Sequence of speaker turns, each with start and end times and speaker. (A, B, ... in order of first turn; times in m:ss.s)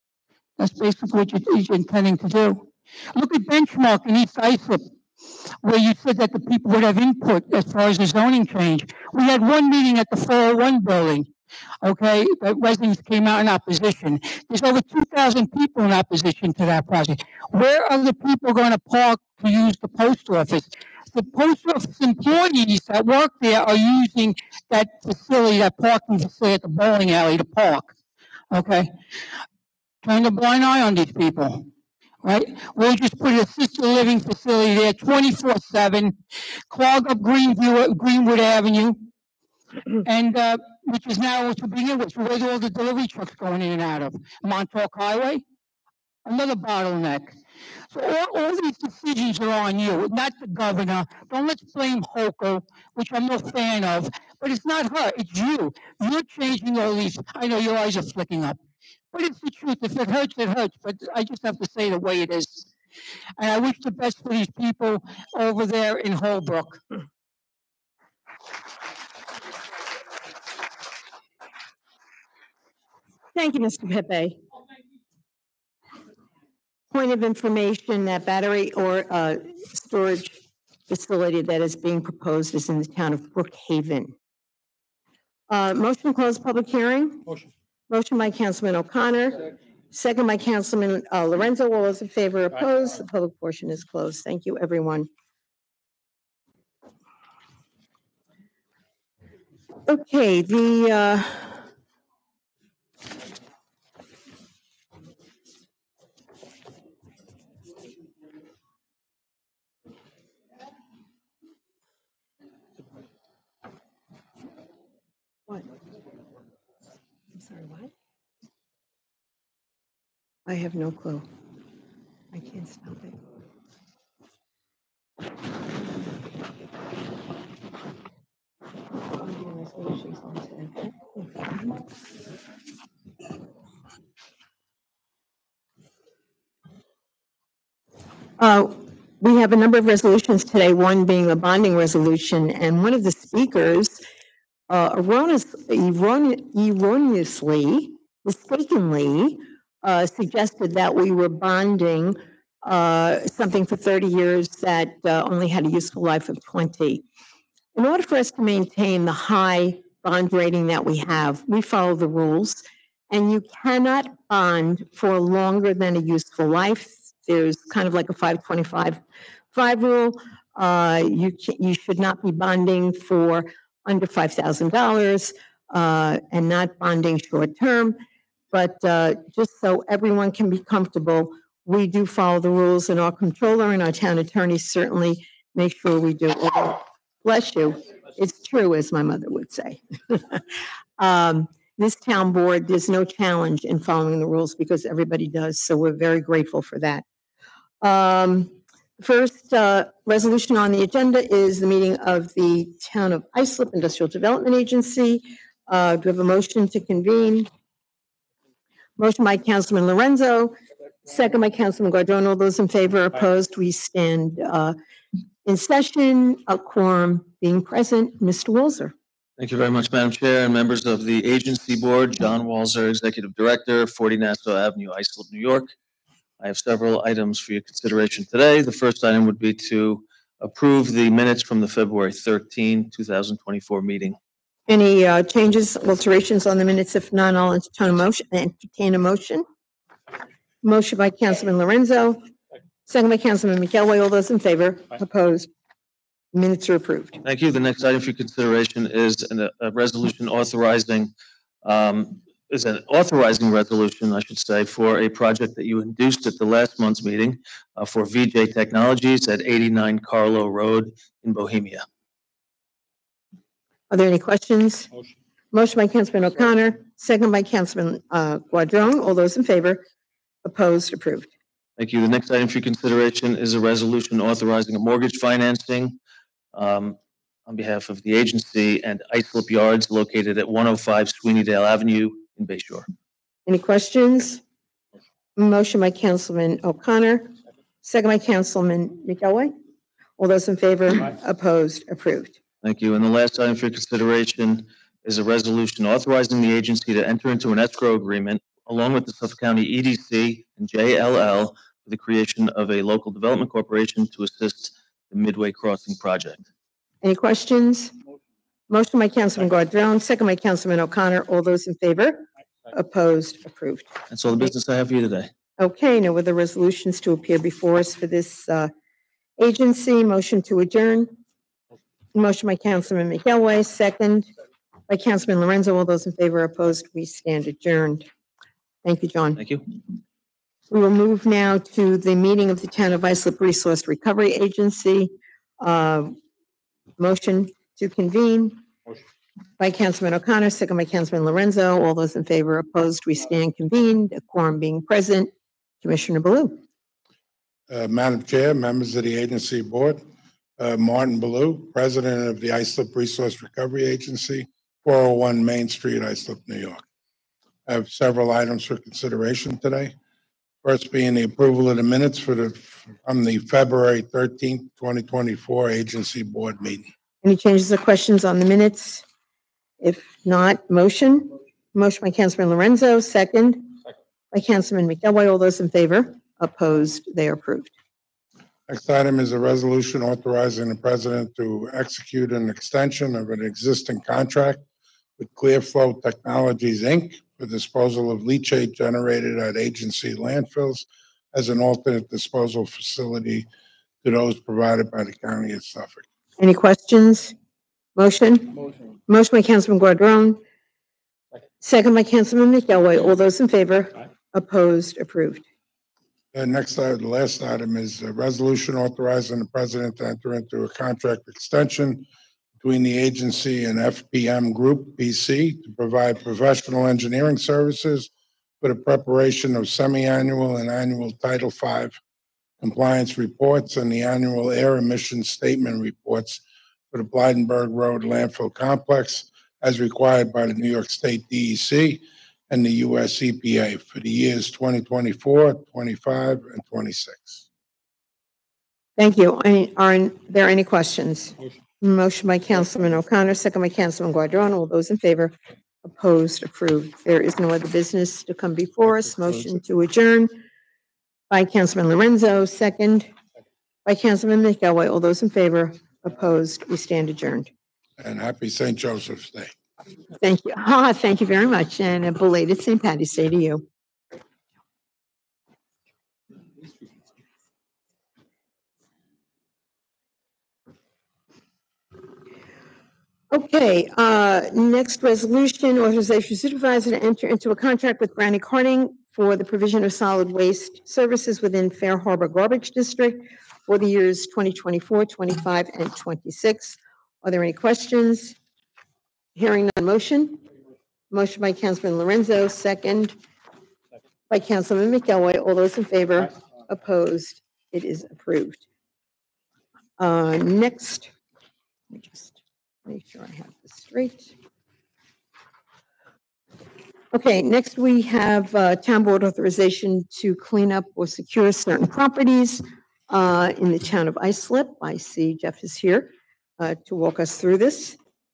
0:00.6-0:04.9 A
0:05.6-0:11.3 A
0:11.8-0:27.9 A
0:28.5-0:28.9 A
0:30.0-0:31.6 A
0:32.2-0:36.2 A
0:36.7-0:39.1 A
0:40.0-0:45.4 A
0:46.2-0:47.4 A
0:47.9-0:58.6 A
0:59.1-1:02.6 A
1:03.4-1:06.8 A
1:13.3-1:14.4 B
1:16.9-1:24.1 B
1:25.5-1:27.2 B
1:27.9-1:35.1 B
1:39.9-1:41.5 B
1:57.3-1:57.9 B
2:00.5-2:01.2 B
2:02.3-2:03.1 B
2:09.2-2:11.6 B
2:18.4-2:24.0 B
2:24.7-2:37.0 B
2:37.7-2:49.0 B
2:49.5-2:58.0 B
2:58.5-3:10.4 B
3:11.0-3:17.0 B
3:17.8-3:27.5 B
3:29.0-3:30.5 B
3:31.0-3:34.8 B
3:35.4-3:38.9 B
3:39.4-3:45.7 C
3:46.4-3:54.2 C
3:54.7-3:59.4 B
4:00.6-4:02.2 B
4:02.9-4:05.5 B
4:06.3-4:07.2 B
4:07.2-4:11.1 C
4:11.6-4:21.8 C
4:23.9-4:24.9 B
4:25.5-4:29.8 B
4:30.4-4:31.3 B
4:31.8-4:36.0 C
4:36.5-4:42.9 C
4:43.5-4:44.4 B
4:45.4-4:47.3 B
4:47.8-4:49.5 B
4:50.2-4:52.4 B
4:52.6-5:06.4 C
5:07.0-5:07.9 B
5:08.7-5:13.9 B
5:14.1-5:15.3 C
5:15.6-5:18.7 B
5:19.4-5:21.1 B
5:22.1-5:24.3 B
5:24.9-5:28.0 B
5:28.8-5:29.4 B
5:29.3-5:29.6 C
5:30.7-5:36.2 B
5:37.0-5:38.6 B
5:39.6-5:45.3 B
5:45.8-5:46.6 B
5:47.7-5:50.0 D
5:50.6-5:56.8 D
5:57.7-5:59.9 D
6:00.6-6:06.9 D
6:07.2-6:09.0 B
6:09.8-6:13.8 B
6:14.3-6:17.7 B
6:18.7-6:24.6 D
6:25.2-6:33.5 D
6:34.0-6:36.0 D
6:36.4-6:37.3 B
6:38.0-6:38.5 B
6:39.1-6:40.4 B
6:41.6-6:45.4 B
6:46.3-6:52.0 D
6:52.6-6:58.1 D
6:58.6-7:02.0 D
7:02.6-7:17.4 D
7:19.0-7:30.3 B
7:31.3-7:33.1 B
7:33.8-7:37.5 B
7:38.0-7:39.5 D
7:40.2-7:43.6 B
7:53.3-8:08.4 B
8:09.4-8:10.4 B
8:11.1-8:13.1 B
8:14.3-8:18.6 B
8:20.0-8:21.1 B
8:21.9-8:24.3 B
8:27.1-8:38.0 B